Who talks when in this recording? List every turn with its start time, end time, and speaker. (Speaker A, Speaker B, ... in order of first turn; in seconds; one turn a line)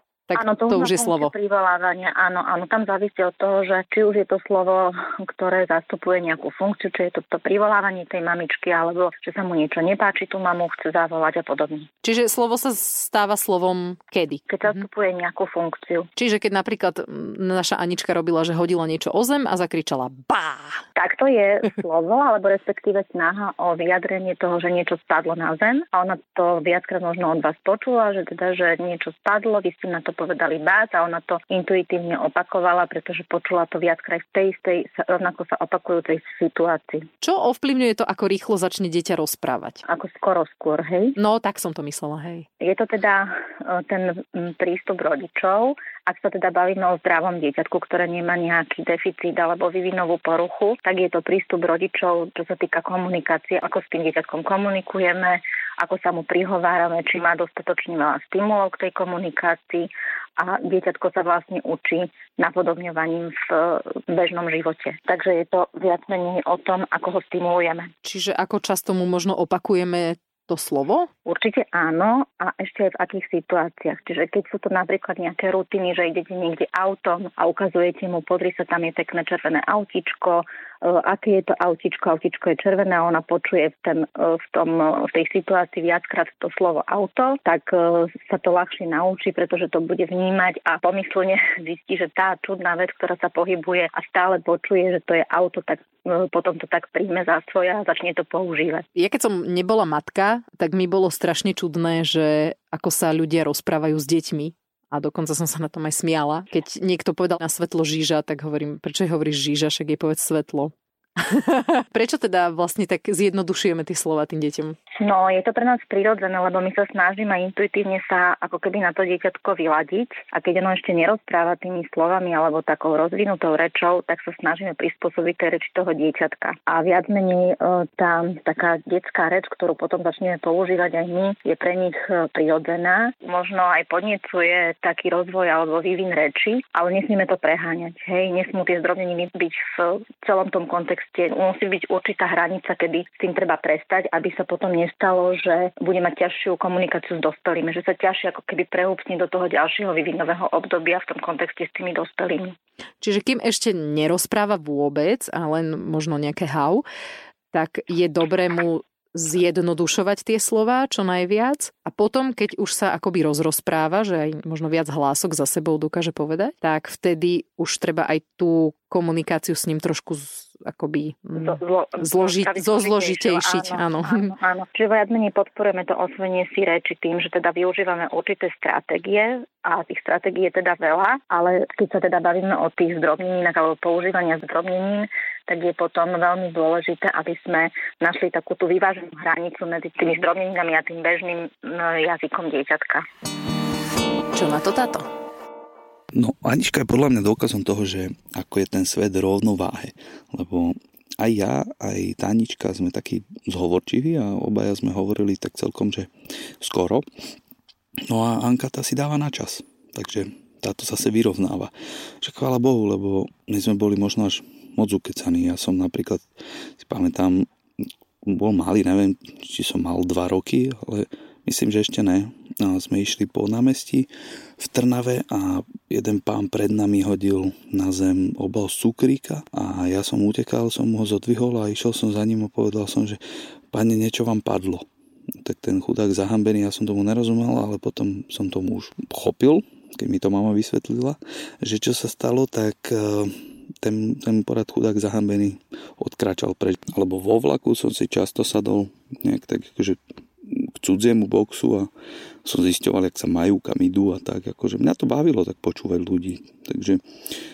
Speaker A: 0.3-1.3
Speaker B: 0.3-11.9
Speaker A: 12.0-14.8
Speaker B: 14.5-16.1
Speaker A: 16.1-20.8
Speaker B: 20.9-37.0
Speaker A: 37.2-39.8
Speaker B: 39.9-41.1
Speaker A: 41.2-42.4
Speaker B: 42.6-67.9
Speaker A: 68.0-71.1
Speaker B: 71.2-98.8
Speaker A: 99.0-114.7
Speaker B: 115.0-152.5
Speaker A: 153.0-156.8
Speaker A: 157.5-174.3
Speaker B: 171.3-193.0
Speaker A: 194.3-195.1
Speaker C: 196.1-206.1
Speaker C: 206.6-207.0
Speaker C: 208.1-216.2
Speaker C: 216.8-217.4
Speaker C: 218.2-233.2
Speaker C: 233.7-234.8
Speaker C: 235.4-251.9
Speaker C: 252.4-257.0